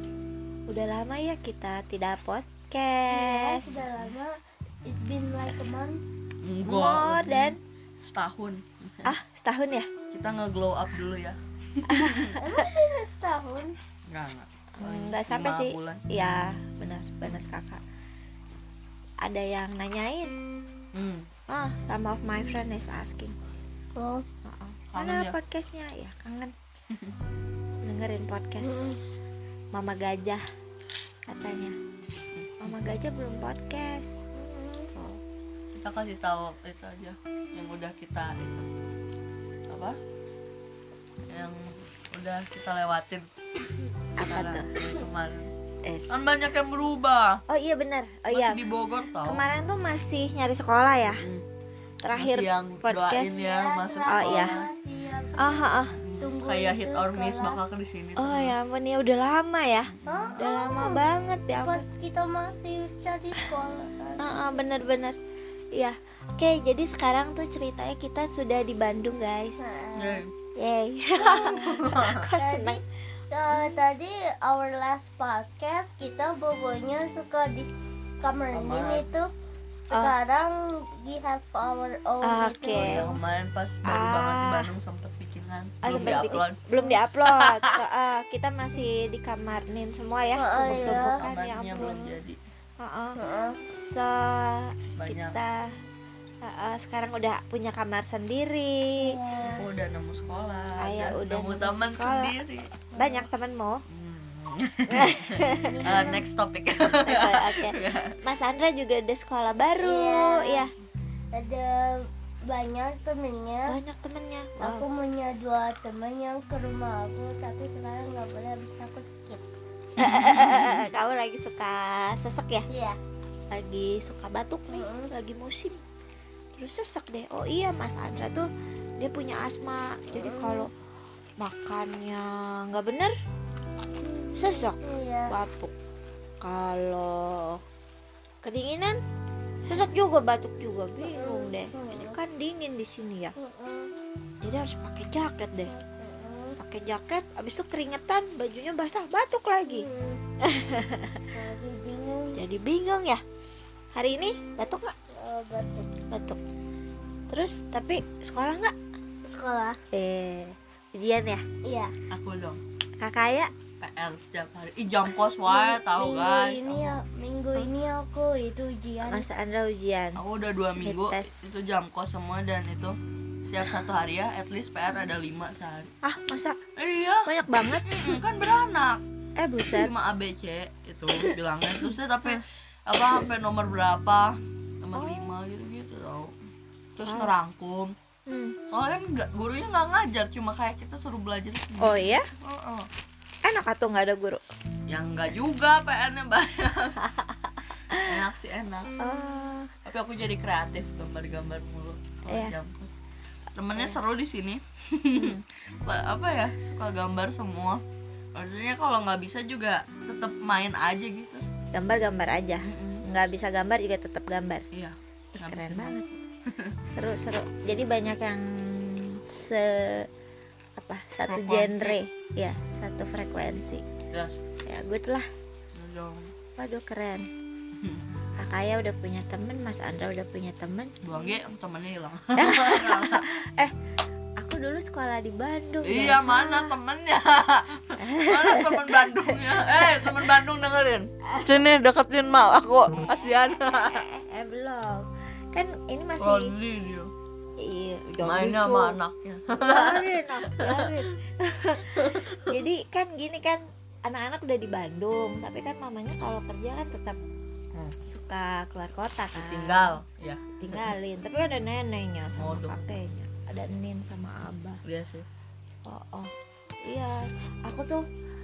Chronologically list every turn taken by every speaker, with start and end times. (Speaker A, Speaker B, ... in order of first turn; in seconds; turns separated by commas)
Speaker A: 0.7-3.9, Speaker B: 3.1-4.3, Speaker B: 4.8-6.0, Speaker C: 6.4-9.2, Speaker A: 6.6-7.6, Speaker A: 9.1-9.9, Speaker C: 10.1-12.3, Speaker A: 11.9-12.6, Speaker B: 12.3-13.8, Speaker C: 14.1-16.0, Speaker A: 14.8-17.8, Speaker A: 19.2-20.3, Speaker C: 20.9-21.3, Speaker A: 21.5-23.4, Speaker B: 24.0-24.2, Speaker A: 24.4-26.5, Speaker C: 24.9-25.4, Speaker A: 27.8-29.2, Speaker B: 28.6-29.0, Speaker A: 29.7-30.4, Speaker A: 31.3-31.8, Speaker C: 32.4-32.7, Speaker A: 32.6-34.1, Speaker B: 34.4-34.9, Speaker A: 34.9-35.2, Speaker C: 35.7-38.7, Speaker C: 39.7-40.0, Speaker C: 41.3-43.3, Speaker A: 44.2-44.7, Speaker C: 44.2-45.5, Speaker A: 45.8-46.2, Speaker C: 46.1-47.4, Speaker A: 47.5-51.2, Speaker C: 48.3-49.4, Speaker C: 51.1-51.5, Speaker A: 52.0-53.5, Speaker C: 52.2-54.7, Speaker B: 53.4-57.6, Speaker A: 54.0-54.6, Speaker A: 55.4-56.0, Speaker C: 56.0-58.6, Speaker A: 58.2-61.9, Speaker C: 59.9-60.4, Speaker B: 60.1-61.0, Speaker B: 61.6-64.6, Speaker A: 64.2-65.2, Speaker A: 65.7-69.7, Speaker B: 69.6-70.2, Speaker C: 70.0-70.3, Speaker A: 70.6-72.8, Speaker B: 71.2-71.8, Speaker C: 71.5-72.3, Speaker B: 72.4-77.7, Speaker B: 78.2-79.3, Speaker C: 78.5-79.1, Speaker B: 79.9-83.2, Speaker A: 82.2-83.1, Speaker C: 82.7-86.6, Speaker A: 83.8-84.7, Speaker A: 85.8-92.0, Speaker C: 87.3-87.8, Speaker B: 90.4-92.2, Speaker C: 90.6-92.4, Speaker A: 92.8-95.7, Speaker B: 93.2-93.6, Speaker C: 95.0-95.4, Speaker A: 96.4-99.0, Speaker B: 99.0-99.7, Speaker C: 99.4-102.8, Speaker A: 100.8-102.3, Speaker B: 103.0-103.3, Speaker A: 103.0-103.8, Speaker C: 103.9-108.2, Speaker A: 104.9-106.1, Speaker B: 105.6-106.2, Speaker A: 106.9-110.7, Speaker B: 109.8-110.7, Speaker B: 111.3-113.8, Speaker A: 113.7-114.9, Speaker B: 114.6-119.5, Speaker A: 120.0-122.7, Speaker B: 122.7-123.0, Speaker A: 123.5-125.8, Speaker B: 124.7-125.1, Speaker A: 126.5-128.5, Speaker A: 129.0-130.7, Speaker B: 130.1-130.7, Speaker A: 131.4-133.1, Speaker B: 134.0-135.4, Speaker A: 134.4-135.7, Speaker A: 136.4-137.6, Speaker A: 138.4-139.0, Speaker A: 139.7-143.3, Speaker B: 141.0-142.2, Speaker B: 143.4-143.9, Speaker A: 144.4-145.7, Speaker B: 145.7-146.6, Speaker A: 146.6-149.9, Speaker B: 149.7-150.2, Speaker A: 150.4-151.3, Speaker B: 151.3-152.4, Speaker A: 152.3-153.2, Speaker A: 153.9-154.9, Speaker B: 155.1-155.9, Speaker A: 156.1-156.4, Speaker A: 157.3-158.7, Speaker B: 159.2-159.8, Speaker A: 159.9-161.4, Speaker B: 161.6-161.9, Speaker C: 162.1-162.6, Speaker A: 163.0-163.5, Speaker C: 163.8-167.0, Speaker B: 165.5-169.3, Speaker A: 169.0-170.2, Speaker C: 170.2-175.9, Speaker A: 170.8-171.5, Speaker A: 176.0-176.6, Speaker C: 176.8-179.0, Speaker A: 177.2-178.2, Speaker A: 179.4-179.9, Speaker C: 179.7-186.3, Speaker A: 181.8-182.4, Speaker A: 184.9-185.3, Speaker C: 187.0-187.9, Speaker A: 187.1-187.3, Speaker A: 188.3-188.6, Speaker C: 188.7-192.9, Speaker A: 191.8-192.3, Speaker A: 193.4-194.4, Speaker C: 194.9-197.1, Speaker A: 197.9-198.2, Speaker C: 197.9-198.9, Speaker A: 199.0-199.7, Speaker C: 199.8-203.0, Speaker A: 202.3-202.5, Speaker C: 203.6-207.8, Speaker A: 205.2-205.4, Speaker C: 208.3-211.5, Speaker A: 211.7-214.7, Speaker C: 212.7-213.0, Speaker C: 214.7-216.0, Speaker A: 215.3-216.2, Speaker A: 216.9-220.1, Speaker A: 220.8-223.8, Speaker C: 221.3-222.0, Speaker A: 224.7-225.3, Speaker C: 225.8-226.3, Speaker A: 226.6-227.3, Speaker C: 227.8-228.1, Speaker A: 228.4-230.9, Speaker C: 231.0-233.3, Speaker A: 232.4-233.7, Speaker A: 234.4-236.8, Speaker C: 235.8-244.1, Speaker A: 238.0-240.3, Speaker A: 241.3-241.7, Speaker A: 243.1-246.5, Speaker C: 246.2-247.1, Speaker A: 247.6-249.0, Speaker C: 248.2-251.1, Speaker A: 249.6-257.2, Speaker C: 251.9-252.6, Speaker A: 258.1-260.0, Speaker C: 259.3-260.9, Speaker A: 260.6-264.8, Speaker C: 262.4-263.0, Speaker C: 264.9-265.3, Speaker A: 265.9-266.3, Speaker A: 266.8-268.1